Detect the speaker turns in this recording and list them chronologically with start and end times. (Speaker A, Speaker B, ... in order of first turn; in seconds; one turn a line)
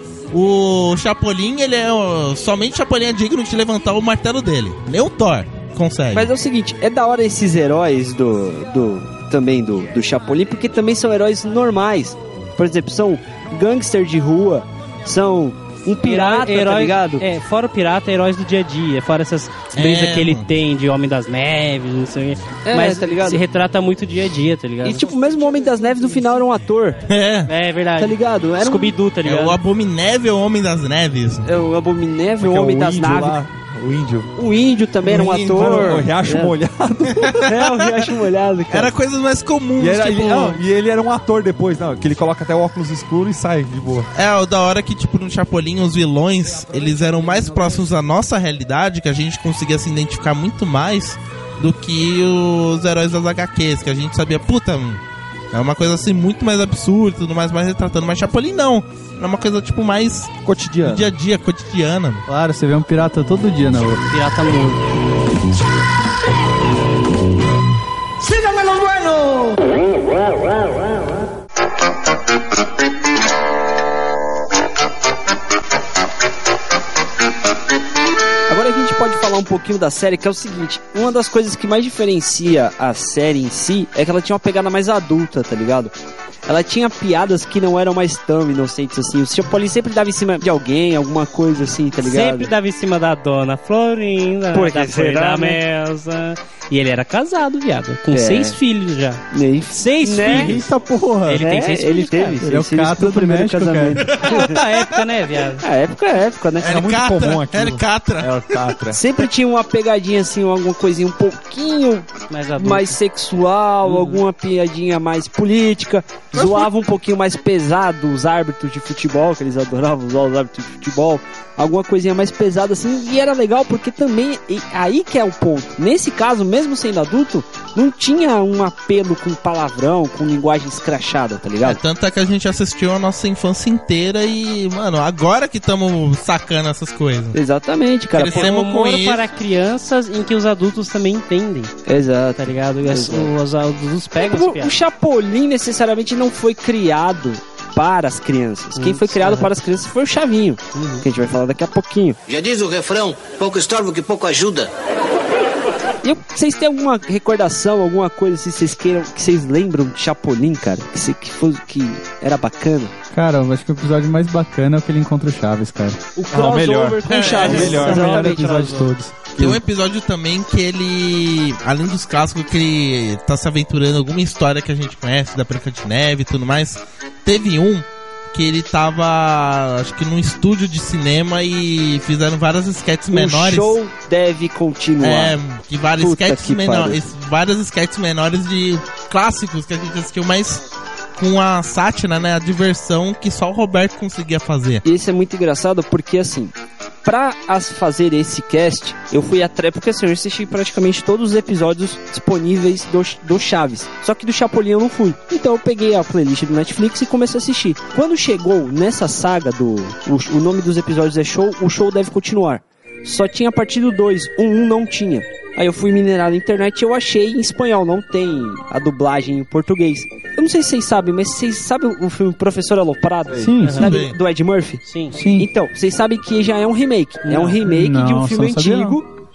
Speaker A: 0.3-6.3
Speaker B: 6.1-17.2
Speaker C: 16.0-25.0
Speaker A: 19.8-20.5
Speaker B: 22.7-23.4
Speaker B: 24.8-27.0
Speaker A: 27.1-27.5
Speaker C: 27.5-29.6
Speaker B: 28.0-29.0
Speaker A: 29.2-31.5
Speaker B: 31.4-33.4
Speaker D: 32.4-34.3
Speaker B: 34.4-36.6
Speaker A: 35.0-36.0
Speaker D: 35.5-37.4
Speaker A: 37.2-37.9
Speaker B: 37.4-38.9
Speaker A: 38.7-40.6
Speaker D: 39.8-44.1
Speaker A: 44.1-55.0
Speaker A: 55.5-62.2
Speaker D: 60.4-61.1
Speaker E: 62.3-64.0
Speaker C: 64.1-64.8
Speaker B: 78.5-85.9
Speaker B: 86.5-92.5
Speaker C: 92.0-100.5
Speaker B: 94.5-95.6
Speaker B: 98.1-98.6
Speaker B: 99.3-100.6
Speaker E: 100.3-101.5
Speaker C: 101.3-102.4
Speaker B: 101.3-104.6
Speaker E: 102.4-104.0
Speaker C: 104.2-105.7
Speaker B: 105.6-106.8
Speaker A: 106.6-108.8
Speaker D: 106.6-109.0
Speaker B: 108.9-131.8
Speaker C: 112.3-113.0
Speaker C: 113.8-114.2
Speaker A: 116.3-116.7
Speaker A: 131.6-137.4
Speaker B: 137.3-138.6
Speaker A: 138.1-139.2
Speaker C: 138.3-141.7
Speaker B: 141.9-143.3
Speaker C: 142.4-144.8
Speaker B: 144.2-152.2
Speaker C: 148.8-149.5
Speaker C: 150.8-151.0
Speaker F: 152.3-154.7
Speaker B: 156.0-162.9
Speaker E: 163.1-166.0
Speaker B: 166.2-168.5
Speaker D: 166.3-168.4
Speaker A: 167.1-167.5
Speaker C: 167.2-168.9
Speaker E: 167.5-169.3
Speaker A: 169.4-183.8
Speaker D: 169.4-169.6
Speaker B: 183.1-185.4
Speaker A: 185.0-190.6
Speaker B: 186.0-187.0
Speaker A: 191.2-194.8
Speaker B: 194.8-196.5
Speaker B: 197.1-224.8
Speaker E: 223.3-223.9
Speaker C: 223.6-224.0
Speaker A: 223.7-224.2
Speaker C: 224.9-225.2
Speaker E: 225.2-225.5
Speaker B: 225.3-229.1
Speaker C: 227.3-227.6
Speaker E: 227.6-229.0